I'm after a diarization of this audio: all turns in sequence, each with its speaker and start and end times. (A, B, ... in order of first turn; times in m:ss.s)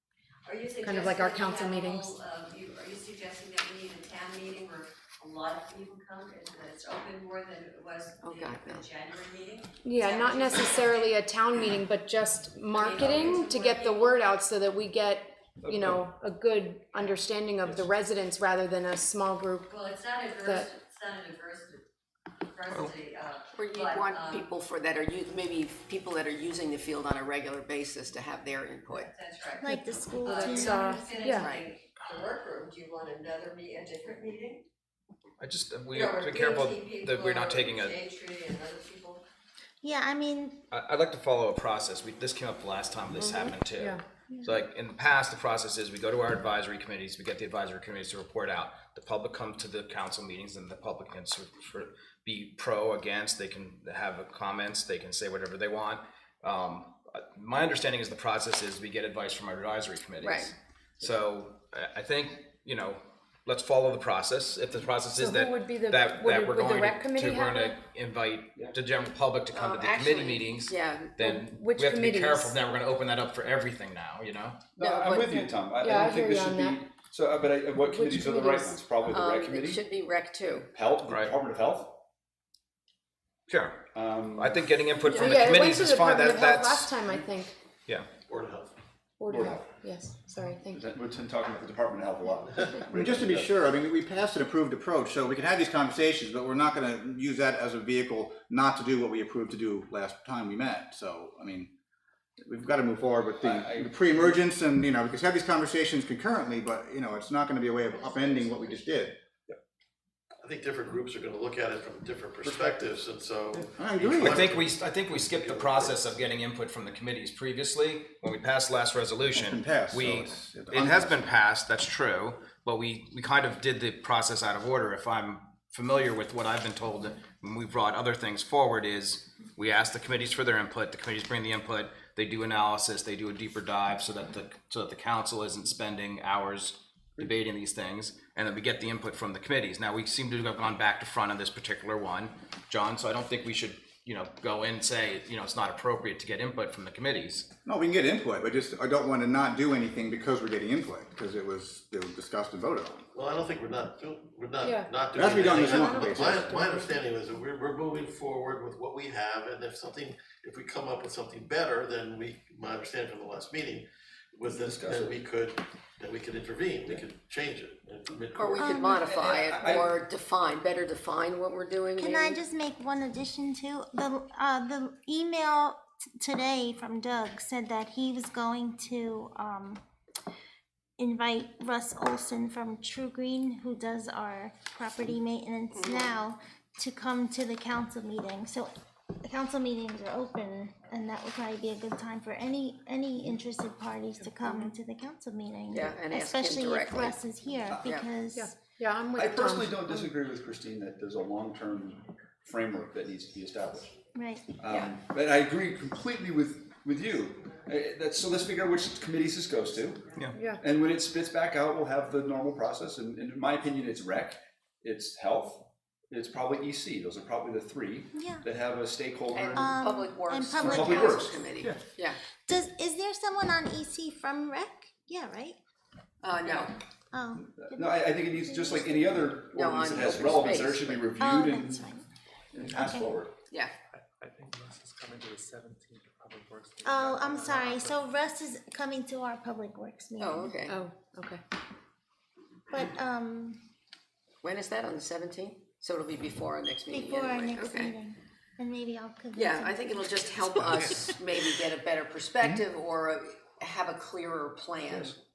0:00.4-0:11.2 A
0:00.8-0:02.1 B
0:08.2-0:08.9 C
0:09.8-0:19.7 B
0:12.7-0:14.2 A
0:15.6-0:16.0 D
0:19.7-0:21.8 A
0:20.4-0:20.7 B
0:22.5-0:24.5 A
0:23.6-0:29.1 C
0:28.9-0:34.6 A
0:29.6-0:31.4 E
0:30.2-0:31.5 B
0:31.4-0:31.7 C
0:35.4-0:38.0 F
0:35.9-0:39.2 A
0:39.8-0:40.6 E
0:40.7-1:14.6 F
0:43.2-0:43.5 C
0:44.3-0:44.6 E
1:00.2-1:00.5 C
1:05.2-1:07.8 B
1:09.5-1:11.2 C
1:11.2-1:12.6 B
1:14.8-1:19.9 D
1:14.8-1:15.5 C
1:15.8-1:16.8 B
1:17.8-1:18.8 B
1:19.0-1:20.7 C
1:20.7-1:22.0 D
1:21.0-1:21.3 F
1:23.5-1:27.0 F
1:23.9-1:24.6 D
1:25.0-1:27.5 B
1:25.3-1:25.6 D
1:28.2-1:28.7 G
1:29.2-1:30.9 B
1:29.3-1:29.7 D
1:30.7-1:33.6 D
1:32.9-1:41.7 H
1:42.4-1:49.2 H
1:43.4-1:44.4 D
1:50.4-1:56.0 G
1:53.8-1:54.5 H
1:54.2-2:27.5 F
1:59.3-2:01.2 H
2:27.6-2:33.0 H
2:33.1-2:48.9 G
2:34.6-2:36.9 B
2:35.1-2:36.6 H
2:44.5-2:45.2 D
2:48.4-2:52.4 C
2:48.5-2:49.0 E
2:48.8-2:50.0 D
2:52.0-2:59.8 E
3:01.0-3:18.6 E
3:05.7-3:06.2 C
3:14.2-3:14.7 B
3:15.7-3:18.1 C
3:17.7-3:17.9 D
3:18.3-3:20.1 B
3:19.2-3:24.0 D
3:24.1-3:24.5 E
3:24.6-3:39.8 D
3:24.6-3:25.0 C
3:30.3-3:30.6 B
3:38.1-3:38.4 E
3:39.3-3:42.2 C
3:39.5-3:41.4 E
3:40.6-3:41.8 D
3:42.5-3:45.6 E
3:46.2-3:46.8 C
3:47.1-3:47.9 E
3:47.3-3:51.9 D
3:48.4-3:49.3 E
3:49.5-3:51.1 C
3:51.1-3:52.0 E
3:52.5-3:53.4 D
3:52.7-3:53.1 E
3:54.2-3:58.0 I
3:56.8-4:00.6 E
4:00.2-4:00.7 C
4:00.7-4:01.4 B
4:02.7-4:03.6 E
4:04.4-4:07.9 C
4:06.9-4:11.1 E
4:09.4-4:15.2 C